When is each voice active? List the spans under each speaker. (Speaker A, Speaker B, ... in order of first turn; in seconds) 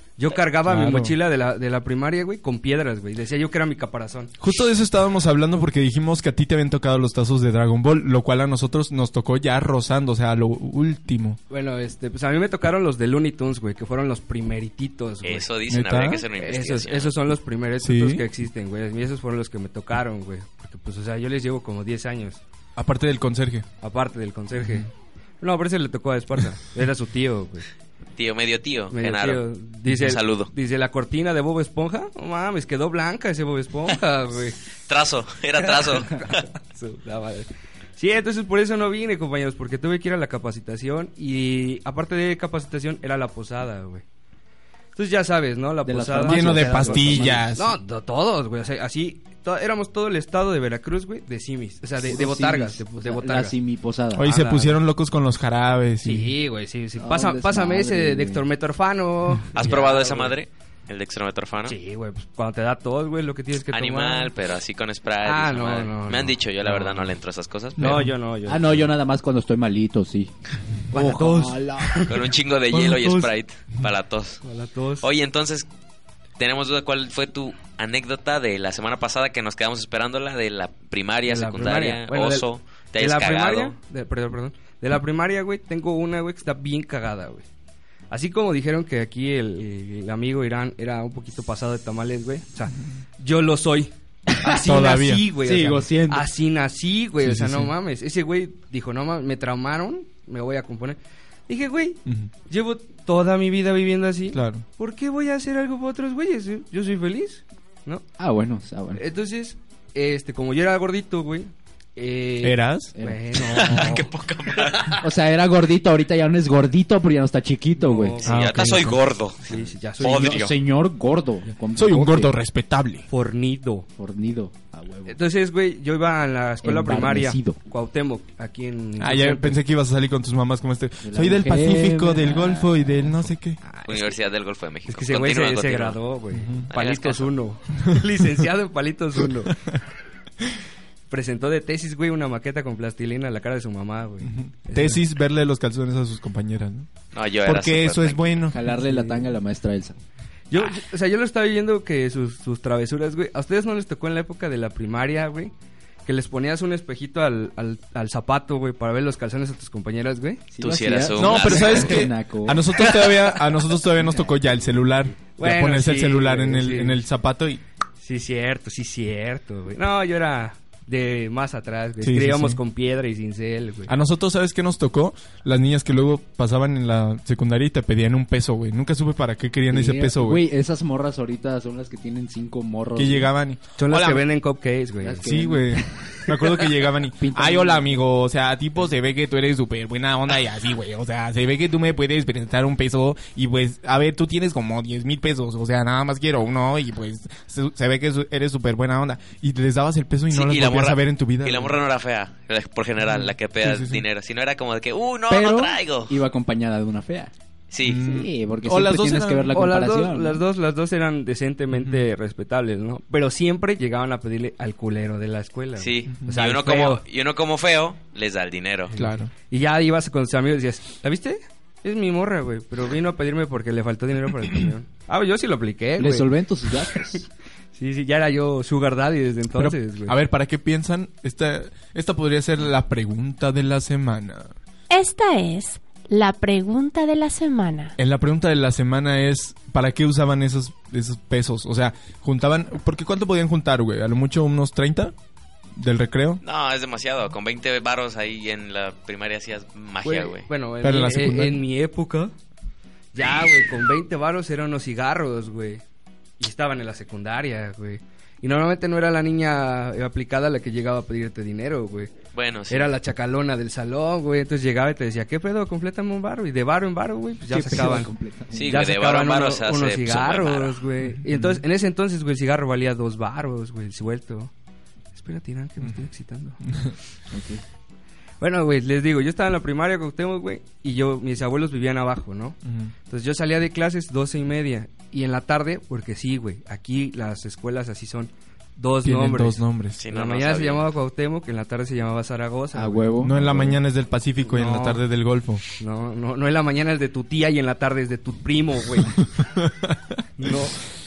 Speaker A: 0.2-4.3, 11.5-15.5, 16.4-22.4, 23.8-24.9, 25.4-27.6, 28.9-34.6, 35.6-44.0, 45.0-53.5, 54.3-54.6, 56.0-60.4, 61.6-64.3, 65.2-66.3, 67.8-68.9, 70.9-72.2, 72.7-73.3, 74.4-75.0, 81.3-87.5, 88.1-108.0, 108.9-114.1, 117.8-118.4, 119.5-120.3, 123.1-123.8, 125.0-129.6, 133.6-134.2, 134.8-139.6, 141.1-145.0, 148.7-149.3, 150.5-155.5, 156.1-160.5, 165.3-167.0, 168.0-173.9, 183.8-185.2, 209.5-217.0, 218.9-226.3, 227.7-230.1, 250.0-252.3, 253.1-255.8, 256.4-262.1, 262.7-268.1, 268.6-274.5, 275.1-276.6, 278.4-293.2, 294.4-295.0, 295.8-299.1, 300.4-300.8
Speaker B: 0.6-1.1, 4.4-11.4, 15.7-16.2, 17.8-18.2, 22.8-23.7, 24.6-24.9, 46.2-47.7, 54.1-56.3, 67.8-68.1, 94.4-95.6, 97.2-97.7, 104.3-104.6, 112.4-112.9, 118.2-119.0, 121.8-123.0, 129.0-133.6, 136.3-136.7, 137.8-138.0, 144.3-146.9, 147.4-148.6, 161.2-167.6, 172.0-172.6, 173.9-180.4, 182.9-184.2, 185.2-201.7, 203.0-204.0, 207.8-209.6, 211.7-212.0, 219.0-219.3, 229.6-234.5, 238.0-245.1, 245.8-246.4, 250.8-251.6, 271.3-271.6, 282.6-282.9, 289.0-290.0, 293.2-295.6, 299.2-300.0
Speaker C: 15.2-17.1, 28.2-30.5, 34.9-36.5, 59.5-61.7, 63.7-68.0, 72.0-74.4, 75.0-75.7, 76.4-83.7, 113.3-115.0, 118.2-120.5, 133.8-136.0, 136.7-137.3, 147.1-148.5, 160.6-162.1, 163.0-163.2, 200.3-206.1, 207.7-208.0, 215.8-218.9, 246.4-250.5, 262.3-262.9, 268.5-270.8, 290.0-290.9
Speaker D: 45.8-47.5, 52.0-54.7, 57.0-58.4, 68.5-70.3, 70.9-72.0, 95.4-96.3, 108.2-109.0, 113.0-114.0, 114.9-118.2, 120.0-122.3, 124.0-125.2, 126.6-127.6, 131.0-133.1, 148.5-149.9, 160.5-162.8, 164.0-164.4, 179.7-183.3, 185.0-188.0, 205.3-207.3, 208.0-210.4, 226.0-227.3, 267.5-268.7, 277.3-277.6, 292.7-293.8
Speaker E: 234.9-237.9